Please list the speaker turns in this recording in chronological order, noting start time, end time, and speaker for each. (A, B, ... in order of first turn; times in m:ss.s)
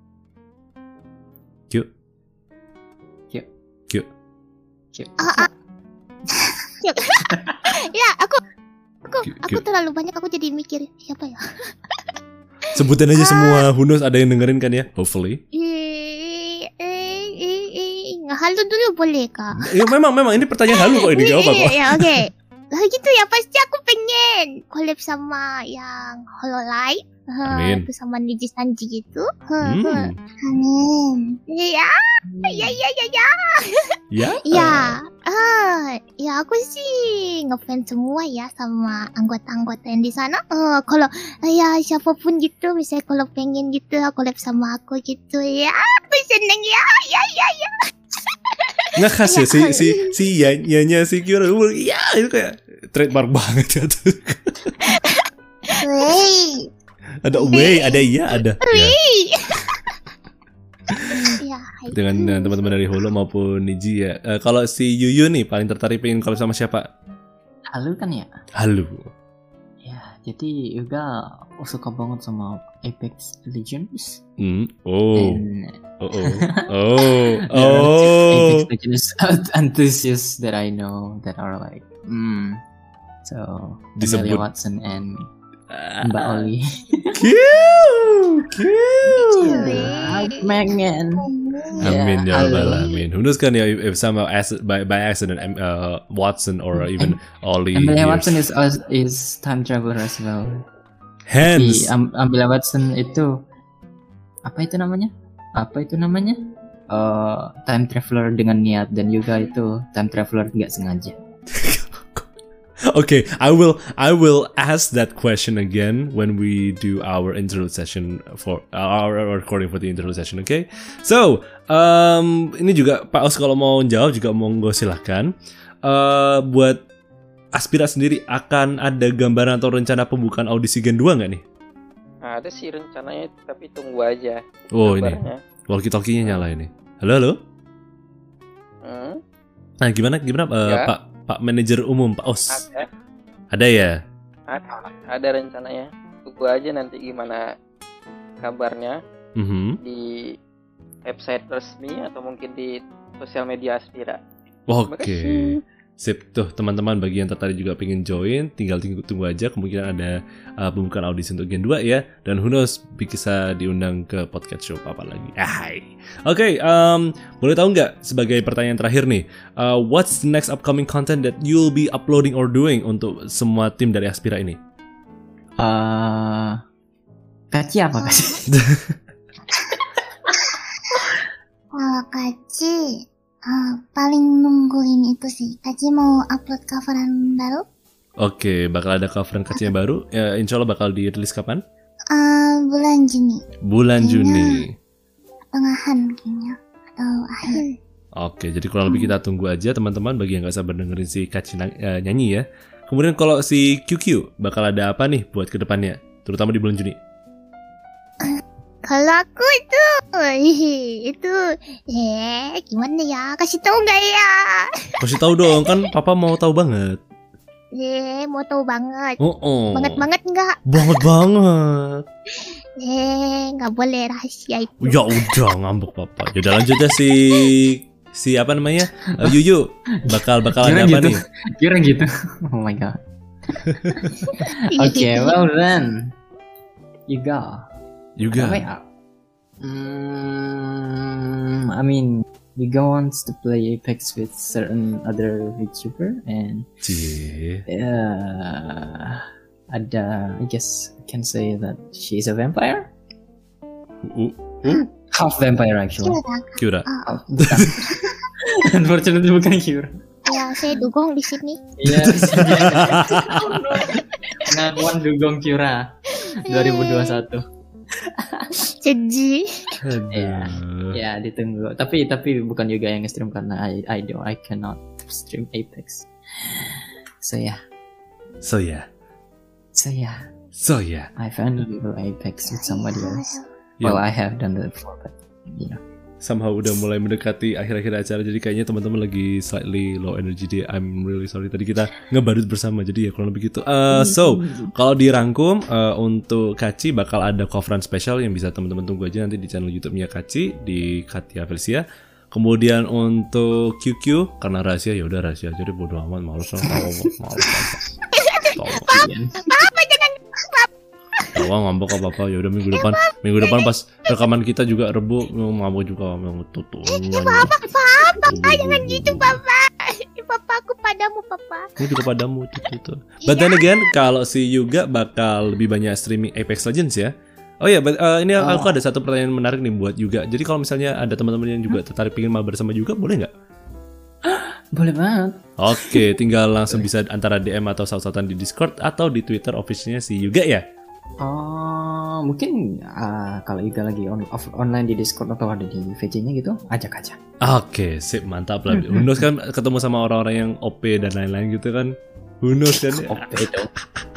0:04.9-0:05.5 A
0:05.2-0:05.5 B
0:06.8-0:08.4 B
0:07.3-0:07.6 A
0:09.1-0:12.0 B
0:09.3-0:09.6 C
0:12.7-0:15.4 C
0:13.2-0:13.7 B
0:15.5-0:19.8 B
0:19.6-0:22.3 C
0:20.7-0:30.1 B
0:27.4-0:27.9 C
0:29.6-0:30.2 C
0:30.4-0:31.4 D
0:31.5-0:31.9 B
0:32.3-0:32.7 A
0:32.4-0:47.9 B
0:34.1-0:35.0 C
0:48.5-0:50.1 B
0:49.0-0:54.8 C
0:54.8-0:56.2 B
0:55.8-0:56.7 D
0:57.2-0:59.0 C
0:57.3-0:58.0 B
0:58.6-0:59.9 B
1:00.9-1:01.4 C
1:01.1-1:02.7 B
1:01.9-1:06.9 C
1:07.7-1:08.3 A
1:08.6-1:09.1 C
1:09.8-1:14.2 A
1:14.4-1:15.4 C
1:15.2-1:22.6 A
1:16.0-1:18.7 C
1:23.2-1:25.3 A
1:24.0-1:24.4 C
1:25.7-1:26.5 C
1:26.0-1:27.2 A
1:27.2-1:29.8 C
1:29.1-1:31.3 A
1:29.4-1:30.4 B
1:31.2-1:32.0 D
1:31.8-1:33.0 A
1:31.8-1:38.4 C
1:36.8-1:37.2 A
1:37.8-1:40.6 A
1:41.3-1:41.9 C
1:41.4-1:43.4 A
1:44.4-1:51.2 A
1:51.5-1:52.3 C
1:52.9-2:05.3 C
2:05.9-2:06.8 C
2:07.6-2:11.4 C
2:12.2-2:15.4 E
2:14.7-2:17.4 C
2:18.8-2:19.2 E
2:19.8-2:22.7 C
2:20.6-2:20.9 E
2:22.5-2:22.9 E
2:23.5-2:24.0 C
2:24.5-2:27.4 E
2:28.4-2:29.0 E
2:29.4-2:29.8 C
2:29.8-2:30.1 E
2:31.1-2:34.2 E
2:34.7-2:54.6 C
2:34.9-2:35.6 E
2:55.6-2:56.6 A
2:57.5-2:58.5 A
2:58.0-2:58.4 B
2:58.5-2:59.0 C
3:01.7-3:07.6 D
3:08.2-3:11.6 C
3:12.1-3:13.4 D
3:13.6-3:14.7 C
3:14.0-3:14.6 D
3:15.5-3:17.6 D
3:17.5-3:17.8 B
3:18.2-3:27.0 C
3:28.2-3:35.8 B
3:35.0-3:37.0 C
3:37.7-3:39.2 B
3:39.2-3:40.0 C
3:39.7-3:41.0 B
3:40.7-3:42.0 C
3:42.3-3:45.4 B
3:44.8-3:51.2 C
3:49.1-3:49.4 A
3:50.0-3:53.0 A
3:53.5-3:56.2 A
3:54.3-3:55.4 B
3:57.1-3:57.7 A
3:58.2-3:58.7 C
3:58.3-3:58.8 A
3:59.6-4:06.7 A
4:06.8-4:07.6 C
4:07.7-4:12.9 A
4:14.0-4:14.9 C
4:15.0-4:16.2 A
4:16.0-4:17.2 D
4:16.6-4:18.0 C
4:17.0-4:20.0 A
4:20.3-4:21.6 B
4:20.3-4:20.6 D
4:21.8-4:27.4 A
4:22.0-4:23.3 C
4:23.4-4:24.0 B
4:26.3-4:27.2 B
4:28.0-4:28.7 A
4:28.8-4:29.8 B
4:29.8-4:31.0 C
4:30.1-4:37.6 A
4:38.4-4:38.9 C
4:39.8-4:40.3 A
4:40.6-4:41.1 C
4:41.2-4:45.8 A
4:42.5-4:43.5 D
4:46.2-5:07.9 C
4:53.9-4:54.7 A
5:08.1-5:11.4 B
5:08.6-5:08.9 C
5:08.9-5:09.5 A
5:11.4-5:17.6 C
5:12.7-5:14.2 B
5:16.9-5:21.7 B
5:18.2-5:19.4 C
5:21.8-5:33.3 C
5:23.3-5:23.7 B
5:28.4-5:28.7 A
5:34.3-5:36.1 A
5:35.6-5:40.6 C
5:41.2-5:47.2 A
5:47.4-5:53.5 C
5:48.7-5:49.2 A
5:52.9-5:53.7 A